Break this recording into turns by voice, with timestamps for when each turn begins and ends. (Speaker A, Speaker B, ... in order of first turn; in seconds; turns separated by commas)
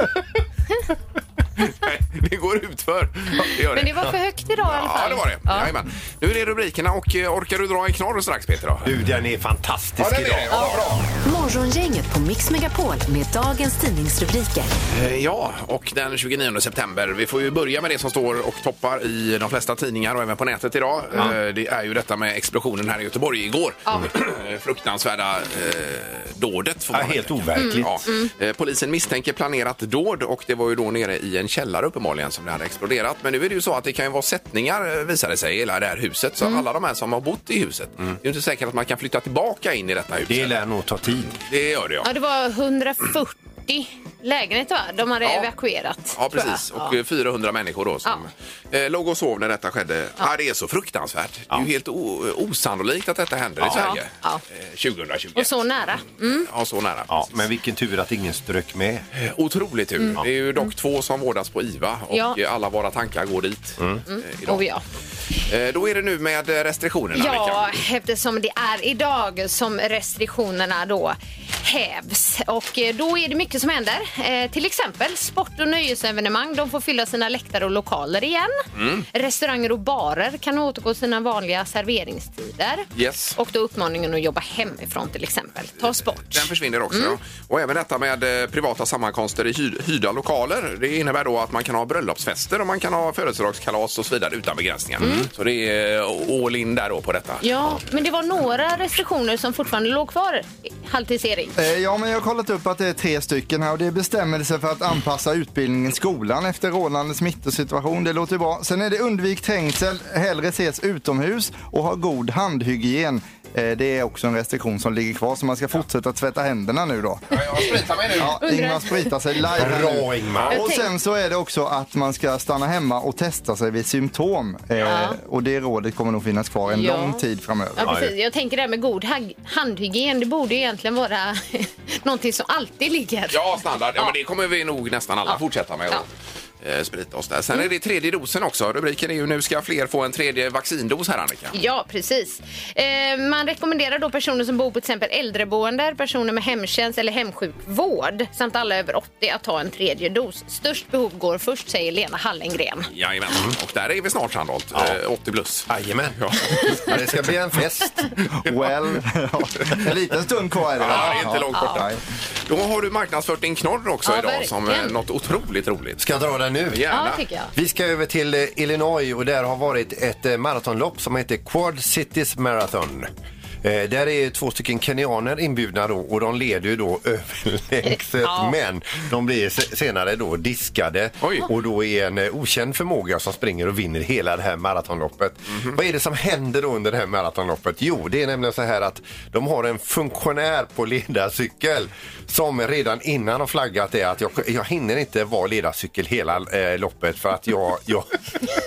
Speaker A: 1.6-8.9, Speaker B: 3.5-5.7, Speaker C: 8.8-10.7, Speaker A: 10.0-11.1, Speaker B: 10.5-10.8, Speaker D: 11.2-14.7, Speaker A: 14.9-40.5, Speaker C: 26.9-28.1, Speaker B: 27.6-28.3, Speaker C: 40.3-41.4, Speaker A: 41.4-42.1, Speaker B: 42.0-47.0, Speaker A: 45.2-45.5, Speaker A: 46.1-57.3, Speaker B: 53.7-54.4, Speaker B: 55.4-56.5, Speaker C: 57.1-59.1, Speaker A: 59.2-64.6, Speaker B: 60.0-60.7, Speaker B: 62.1-62.4, Speaker B: 64.1-64.8, Speaker A: 65.5-67.8, Speaker B: 67.1-78.6, Speaker A: 78.8-79.1, Speaker B: 79.1-87.2, Speaker A: 83.0-83.4, Speaker A: 86.3-97.4, Speaker C: 95.0-95.3, Speaker B: 95.0-95.3, Speaker B: 97.4-101.5, Speaker E: 101.6-117.2, Speaker A: 117.3-118.4, Speaker E: 118.1-128.0, Speaker B: 118.4-119.1, Speaker C: 119.5-120.6, Speaker B: 120.5-120.9, Speaker B: 124.8-125.2, Speaker B: 126.7-127.2, Speaker B: 127.8-133.4, Speaker C: 127.8-128.1, Speaker A: 133.3-136.1, Speaker A: 136.6-141.5, Speaker B: 141.5-152.9, Speaker A: 152.9-156.8, Speaker C: 155.7-158.1, Speaker B: 156.5-156.9, Speaker E: 158.4-162.0, Speaker A: 160.8-161.9, Speaker B: 160.9-161.8, Speaker A: 162.4-166.0, Speaker B: 164.1-164.9, Speaker C: 166.0-166.9, Speaker A: 166.7-167.2, Speaker B: 166.9-167.5, Speaker C: 167.5-173.1, Speaker C: 173.6-198.1, Speaker B: 177.9-178.5, Speaker A: 181.2-181.5